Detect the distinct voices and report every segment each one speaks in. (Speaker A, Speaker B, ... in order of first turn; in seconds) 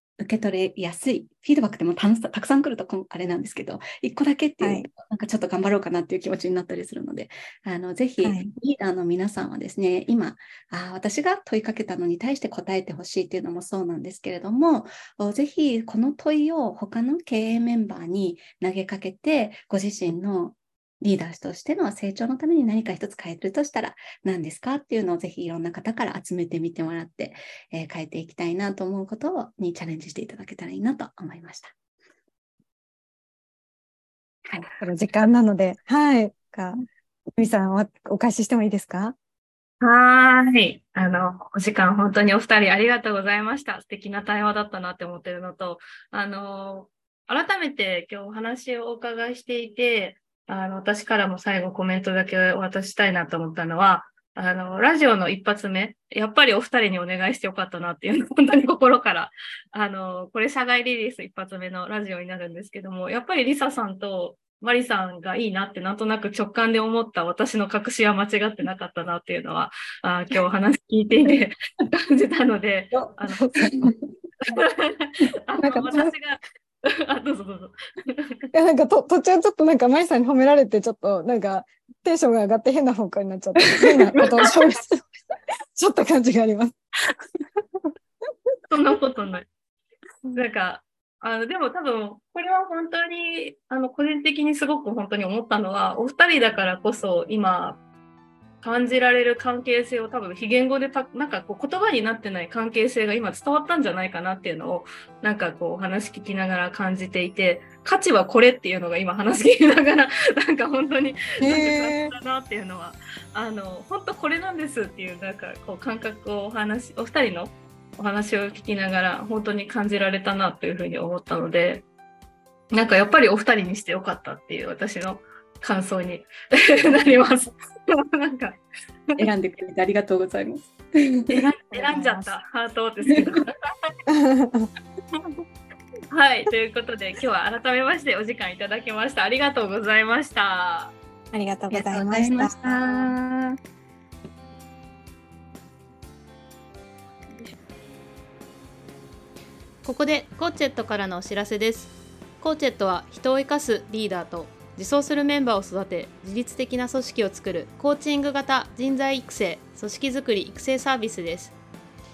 Speaker A: 0.2-31.7, 34.5-34.7, 73.5-74.0, 129.2-131.4, 141.7-143.6
Speaker B: 4.6-4.9, 8.2-8.5, 34.8-39.1, 75.6-76.1, 78.5-85.0, 85.8-86.8, 111.4-112.1, 131.7-132.3, 134.1-134.7, 141.3-143.0
Speaker C: 39.8-73.7, 74.4-78.5, 84.2-84.5, 88.7-89.5, 90.3-97.8, 98.6-121.8, 122.7-128.6, 131.4-133.5, 136.1-140.9
Speaker D: 149.8-161.5